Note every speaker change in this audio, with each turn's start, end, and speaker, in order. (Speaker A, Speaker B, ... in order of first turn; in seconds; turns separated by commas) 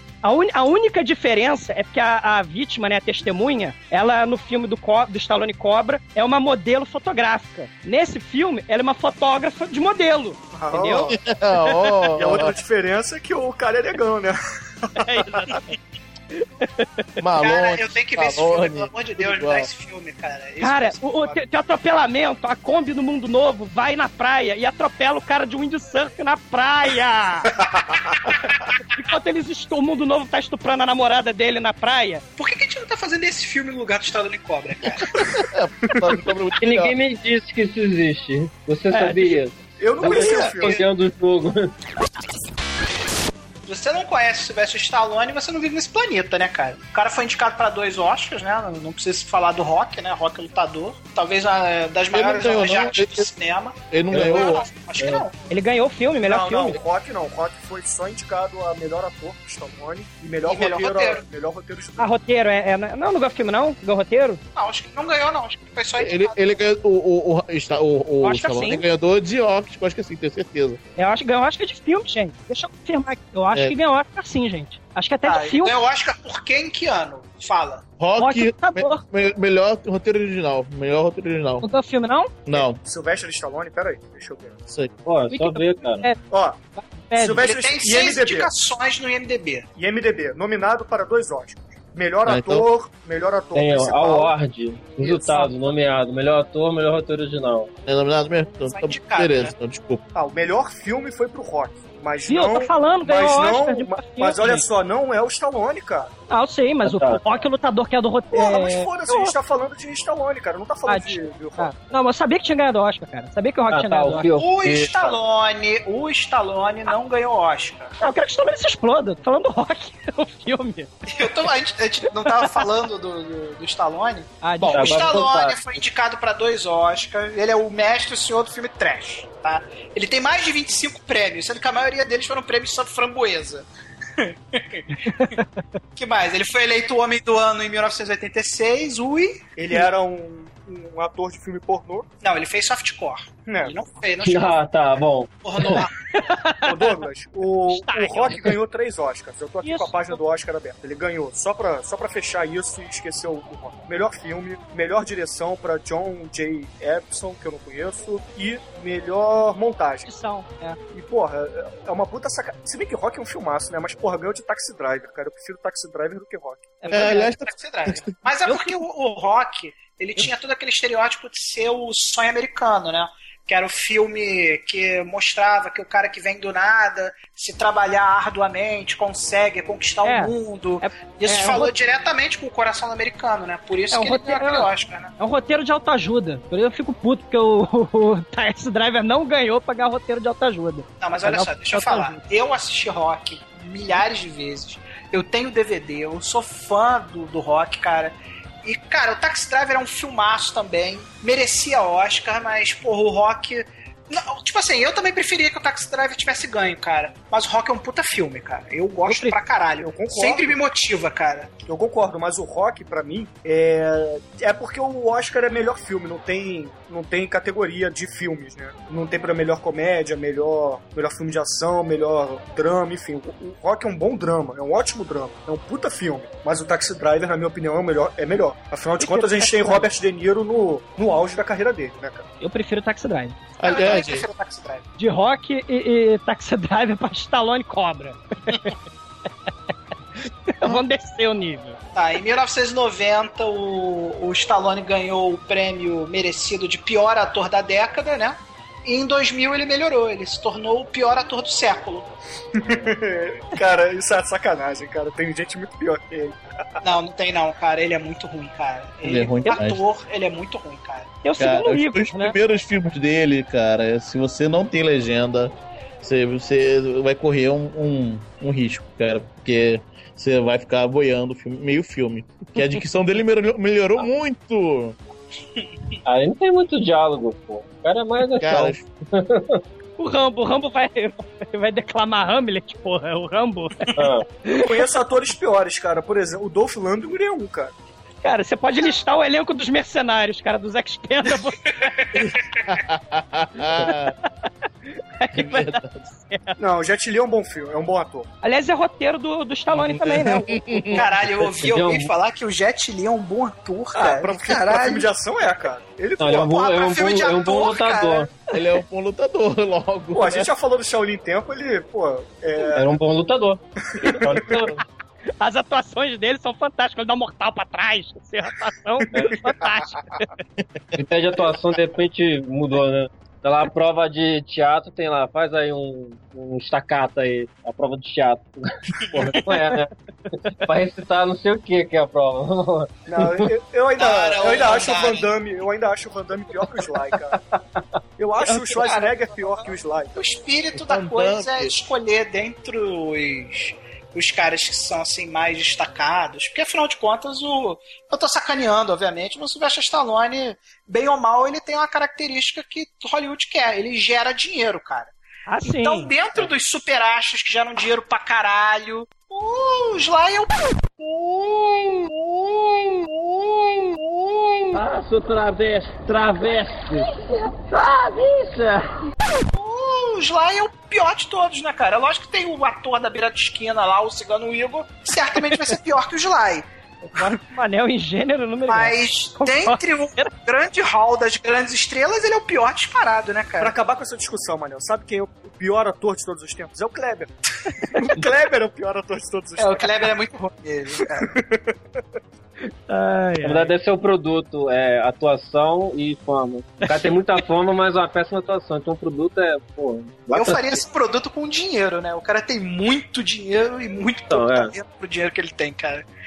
Speaker A: 0.2-11.9, Speaker B: 10.5-11.2, Speaker C: 11.1-12.6, Speaker B: 12.2-15.6, Speaker A: 15.0-15.8, Speaker A: 16.3-16.9, Speaker C: 17.2-19.7, Speaker D: 17.4-21.4, Speaker A: 20.6-27.5, Speaker B: 27.6-28.2, Speaker A: 28.9-32.2, Speaker D: 32.4-35.3, Speaker C: 35.3-37.0, Speaker E: 36.6-41.7, Speaker A: 38.9-39.4, Speaker B: 39.8-40.8, Speaker A: 40.0-40.8, Speaker D: 43.7-55.3, Speaker C: 52.1-53.3, Speaker C: 53.9-54.7, Speaker E: 54.1-54.5, Speaker E: 55.0-55.2, Speaker A: 55.5-56.8, Speaker B: 56.3-62.1, Speaker D: 60.5-61.2, Speaker A: 62.0-64.4, Speaker D: 64.5-66.6, Speaker C: 66.0-70.8, Speaker A: 68.2-68.8, Speaker A: 71.0-75.8, Speaker D: 75.2-77.8, Speaker C: 78.0-81.7, Speaker A: 78.2-79.0, Speaker A: 81.6-82.3, Speaker C: 82.5-82.8, Speaker B: 82.5-84.6, Speaker C: 84.7-84.9, Speaker E: 85.0-86.1, Speaker A: 85.3-86.2, Speaker B: 86.3-86.6, Speaker A: 86.8-87.4, Speaker B: 87.2-88.5, Speaker D: 87.4-89.7, Speaker B: 89.8-94.3, Speaker C: 92.3-92.7, Speaker E: 93.5-97.7, Speaker A: 95.0-95.5, Speaker C: 97.9-100.0, Speaker D: 98.7-99.5, Speaker B: 100.1-106.1, Speaker A: 102.3-104.6, Speaker A: 106.3-109.3, Speaker E: 106.8-107.2, Speaker B: 108.3-111.8, Speaker A: 110.9-114.3, Speaker E: 113.7-115.2, Speaker D: 114.3-117.9, Speaker A: 118.0-120.9, Speaker D: 121.1-133.7, Speaker A: 124.4-125.2, Speaker E: 124.7-125.6, Speaker D: 134.2-135.4, Speaker A: 135.1-135.4, Speaker D: 136.0-139.4, Speaker B: 139.6-142.1, Speaker D: 142.2-144.6, Speaker B: 143.5-143.8, Speaker E: 144.2-145.8, Speaker D: 145.4-145.9, Speaker A: 145.6-146.9, Speaker B: 146.7-160.1, Speaker A: 147.7-148.5, Speaker A: 149.6-150.2, Speaker A: 160.1-160.8, Speaker B: 160.9-166.9, Speaker A: 166.8-167.3, Speaker D: 166.8-185.1, Speaker C: 166.9-168.1, Speaker A: 168.5-168.8, Speaker A: 180.0-181.7, Speaker A: 183.9-192.2, Speaker D: 191.0-211.5, Speaker A: 209.1-209.4, Speaker B: 209.8-210.6, Speaker B: 211.6-232.2, Speaker A: 229.0-229.8, Speaker A: 232.4-233.4, Speaker C: 233.6-234.3, Speaker D: 233.6-234.9, Speaker A: 235.0-238.7, Speaker A: 240.5-241.8, Speaker D: 241.9-252.1, Speaker B: 252.6-256.4, Speaker D: 256.8-261.2, Speaker C: 259.1-259.8, Speaker A: 261.2-262.4, Speaker C: 261.4-275.0, Speaker E: 276.1-279.6, Speaker C: 278.4-278.9, Speaker A: 280.0-283.9, Speaker E: 284.0-284.3, Speaker B: 284.6-287.7, Speaker A: 288.2-291.9, Speaker D: 292.0-292.3, Speaker C: 292.1-294.1, Speaker A: 295.2-296.6, Speaker C: 295.3-296.0, Speaker B: 296.6-298.3, Speaker A: 298.4-301.1, Speaker C: 299.7-301.1, Speaker D: 300.9-305.1, Speaker E: 301.4-302.1, Speaker B: 303.9-306.7, Speaker E: 306.2-308.4, Speaker D: 306.6-308.3, Speaker C: 308.5-310.5, Speaker B: 310.1-313.0, Speaker E: 312.8-314.8, Speaker B: 313.9-314.5, Speaker C: 314.3-314.7, Speaker A: 315.4-320.2, Speaker B: 319.2-319.7, Speaker C: 320.6-321.0, Speaker E: 321.0-329.9, Speaker E: 330.5-332.9, Speaker B: 333.1-337.4, Speaker D: 334.0-335.3, Speaker B: 338.2-340.2, Speaker D: 338.7-339.5, Speaker D: 340.2-355.1, Speaker C: 340.8-341.8, Speaker A: 355.5-356.1, Speaker D: 355.6-361.3, Speaker E: 364.7-369.0, Speaker D: 369.5-376.7, Speaker A: 377.1-380.3, Speaker D: 378.7-383.7, Speaker B: 383.6-387.4, Speaker B: 387.9-390.1, Speaker D: 389.6-391.3, Speaker B: 391.1-391.8, Speaker A: 392.9-393.7, Speaker E: 393.4-400.8, Speaker D: 400.3-406.1, Speaker E: 404.3-404.8